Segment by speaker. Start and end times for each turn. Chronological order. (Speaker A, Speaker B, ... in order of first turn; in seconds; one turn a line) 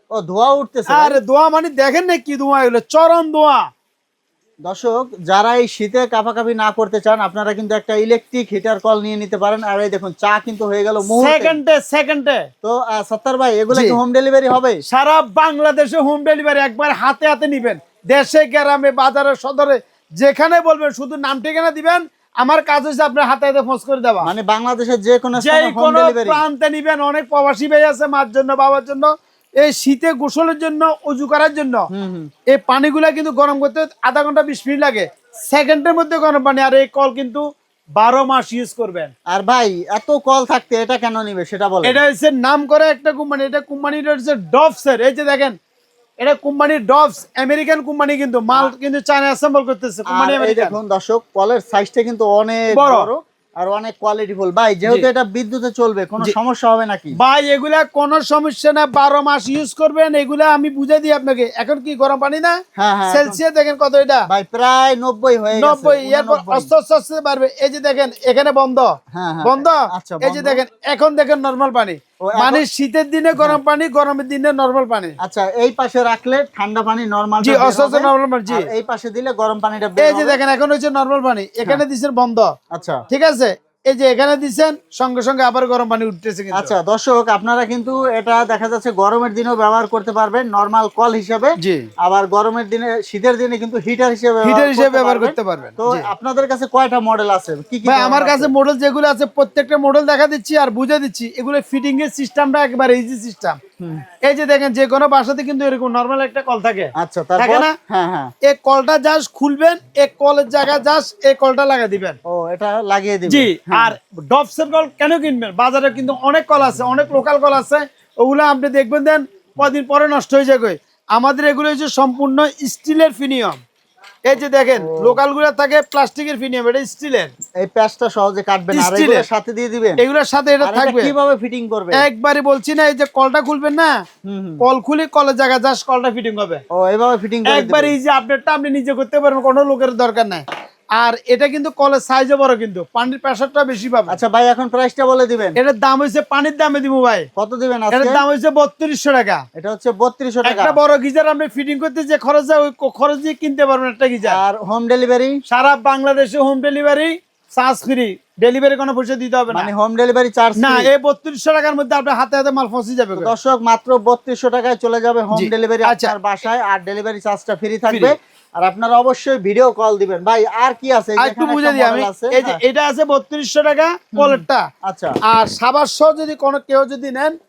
Speaker A: 0.1-1.2
Speaker B: 0.9-3.6
Speaker A: 4.7-11.6
Speaker B: 11.1-12.4
Speaker A: 12.6-14.8
Speaker B: 13.7-14.0
Speaker B: 14.9-24.3
Speaker A: 24.2-26.4
Speaker B: 25.4-31.9
Speaker A: 31.9-32.3
Speaker B: 32.5-37.4
Speaker B: 38.0-39.1
Speaker A: 39.3-42.0
Speaker B: 41.8-45.5
Speaker B: 46.2-50.8
Speaker A: 50.1-57.2
Speaker B: 52.7-53.1
Speaker B: 57.2-64.3
Speaker A: 62.8-63.4
Speaker A: 64.3-66.7
Speaker B: 65.6-75.2
Speaker A: 69.1-70.6
Speaker A: 72.2-72.6
Speaker A: 75.2-80.4
Speaker B: 77.4-78.7
Speaker B: 80.0-82.5
Speaker A: 82.7-83.0
Speaker B: 83.1-86.7
Speaker A: 86.5-98.5
Speaker B: 91.6-91.9
Speaker B: 94.4-96.1
Speaker B: 97.9-103.6
Speaker B: 104.2-107.8
Speaker A: 107.0-108.3
Speaker B: 108.4-112.2
Speaker A: 112.2-113.9
Speaker B: 113.3-123.6
Speaker B: 124.2-127.3
Speaker A: 124.8-125.2
Speaker A: 127.6-130.0
Speaker B: 128.7-129.3
Speaker B: 130.0-131.1
Speaker A: 130.6-132.1
Speaker B: 132.0-134.0
Speaker A: 134.2-134.6
Speaker B: 134.6-136.6
Speaker A: 136.7-137.9
Speaker B: 137.5-140.4
Speaker B: 141.0-144.2
Speaker A: 144.1-145.6
Speaker B: 145.6-147.3
Speaker A: 147.4-148.2
Speaker B: 147.9-149.4
Speaker A: 149.6-150.8
Speaker B: 150.4-154.4
Speaker A: 154.2-155.4
Speaker B: 155.5-159.7
Speaker A: 159.5-160.9
Speaker B: 160.6-163.3
Speaker A: 163.2-172.6
Speaker B: 165.3-166.2
Speaker B: 167.9-168.2
Speaker B: 171.2-174.7
Speaker A: 174.2-175.2
Speaker B: 175.3-177.3